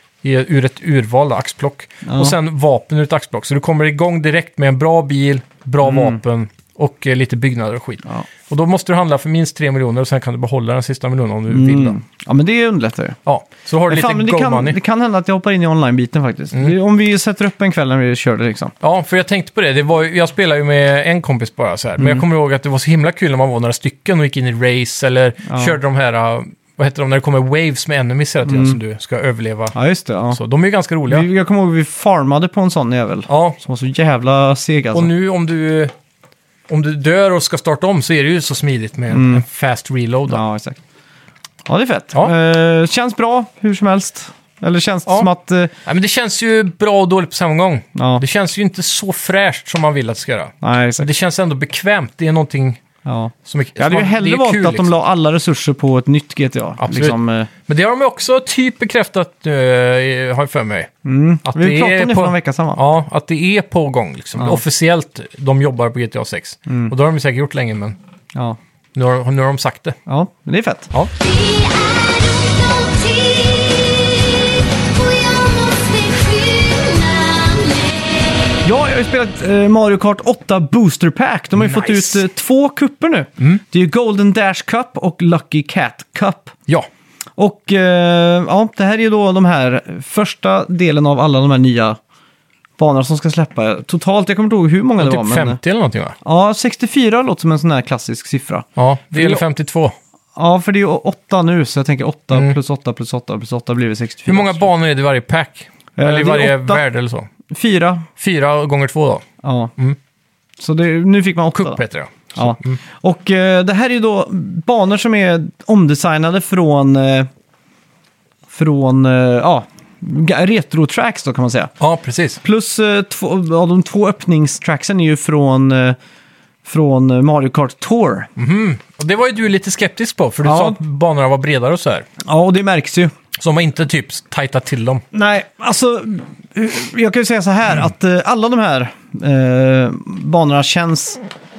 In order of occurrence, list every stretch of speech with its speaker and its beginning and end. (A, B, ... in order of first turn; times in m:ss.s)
0:00.2-0:12.0 A
0:02.0-0:02.4 B
0:05.8-0:06.2 B
0:11.5-0:13.2 B
0:13.2-0:14.8 A
0:13.9-0:18.7 B
0:18.8-0:29.7 A
0:22.0-0:22.2 B
0:25.5-0:25.8 B
0:28.4-0:28.8 B
0:29.7-0:30.4 B
0:30.3-0:31.3 A
0:31.1-0:35.1 B
0:33.3-0:33.6 A
0:34.9-0:35.9 A
0:36.7-0:40.4 A
0:39.1-0:39.4 B
0:40.3-0:40.8 B
0:41.6-0:45.7 B
0:45.8-0:52.8 A
0:48.0-0:48.2 B
0:50.6-0:51.1 B
0:53.0-0:57.5 B
0:53.4-0:54.9 A
0:56.8-1:00.9 A
1:01.0-1:02.8 B
1:01.4-1:08.0 A
1:06.7-1:06.9 B
1:08.9-1:10.0 A
1:10.0-1:10.9 B
1:11.2-1:18.5 C
1:18.6-1:26.6 B
1:21.6-1:22.2 A
1:27.4-1:32.0 B
1:32.8-1:35.6 B
1:35.0-1:36.2 A
1:36.2-1:39.4 B
1:38.8-1:39.9 A
1:40.3-1:44.6 B
1:44.3-1:47.3 A
1:46.0-1:46.8 B
1:47.5-1:48.1 B
1:48.2-1:49.2 A
1:49.4-1:49.7 B
1:50.6-1:51.8 B
1:51.5-1:52.8 A
1:52.4-1:57.3 B
1:58.5-2:01.7 B
2:01.8-2:02.4 A
2:02.4-2:06.0 B
2:06.6-2:08.3 B
2:08.4-2:12.0 A
2:10.4-2:10.8 B
2:12.2-2:13.1 B
2:13.4-2:15.0 A
2:15.1-2:21.2 B